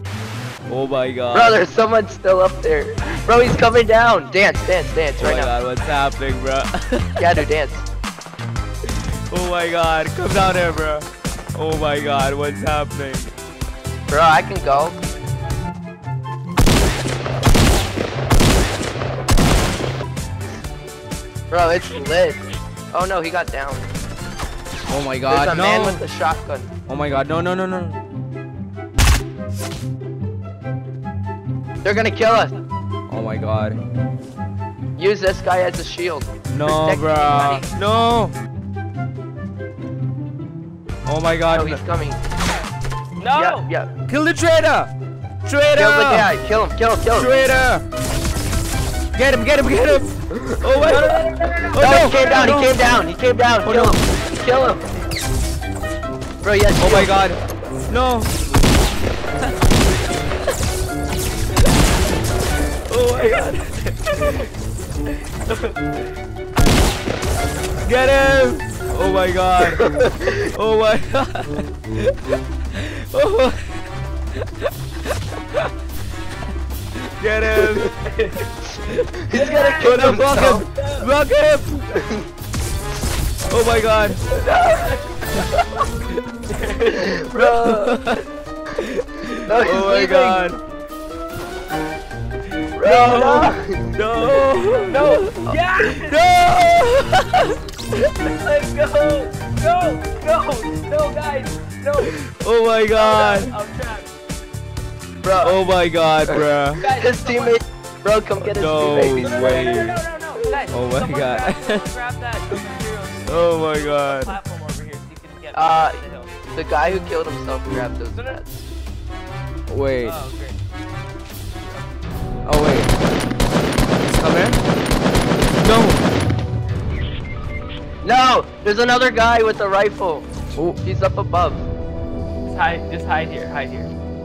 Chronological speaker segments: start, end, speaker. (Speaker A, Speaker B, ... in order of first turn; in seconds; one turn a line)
Speaker A: 0.7-1.6
Speaker B: 1.3-5.5
Speaker A: 5.2-7.3
Speaker B: 7.2-7.8
Speaker A: 9.3-13.3
Speaker B: 14.1-15.0
Speaker B: 21.5-23.9
Speaker A: 24.9-26.0
Speaker B: 25.3-26.7
Speaker A: 26.9-28.0
Speaker B: 31.8-32.5
Speaker A: 33.1-33.8
Speaker B: 35.0-37.7
Speaker A: 36.5-38.3
Speaker A: 41.1-41.8
Speaker B: 41.5-42.2
Speaker C: 43.2-43.7
Speaker B: 43.4-43.9
Speaker A: 44.1-44.9
Speaker A: 45.5-46.3
Speaker B: 45.8-47.3
Speaker A: 47.1-47.8
Speaker A: 49.1-52.8
Speaker B: 50.3-51.1
Speaker C: 50.9-51.8
Speaker B: 51.8-54.8
Speaker A: 53.6-54.1
Speaker B: 56.4-57.1
Speaker A: 56.8-58.3
Speaker A: 62.9-64.5
Speaker A: 67.8-72.2
Speaker B: 69.8-70.4
Speaker A: 72.7-73.8
Speaker A: 74.4-74.7
Speaker A: 77.0-77.9
Speaker B: 77.6-77.9
Speaker B: 79.2-80.7
Speaker C: 79.3-79.9
Speaker A: 79.8-81.9
Speaker B: 82.0-82.3
Speaker A: 83.5-84.2
Speaker B: 84.3-85.6
Speaker B: 86.8-88.0
Speaker A: 87.3-88.2
Speaker A: 88.8-90.6
Speaker B: 89.5-90.5
Speaker A: 92.8-98.1
Speaker B: 92.8-93.9
Speaker C: 94.9-96.2
Speaker C: 98.4-102.1
Speaker A: 102.0-103.5
Speaker C: 102.9-104.1
Speaker B: 105.2-105.6
Speaker A: 105.4-106.8
Speaker B: 106.3-109.8
Speaker C: 106.8-107.6
Speaker A: 108.5-110.0
Speaker C: 109.2-116.3
Speaker A: 110.7-111.8
Speaker A: 113.3-114.3
Speaker B: 115.5-116.0
Speaker B: 116.5-118.2
Speaker C: 118.2-118.6
Speaker A: 119.7-120.2
Speaker C: 120.0-120.6
Speaker A: 122.5-123.0
Speaker A: 124.0-124.6
Speaker A: 125.6-126.0
Speaker B: 128.0-130.3
Speaker B: 130.8-131.7
Speaker C: 132.5-133.9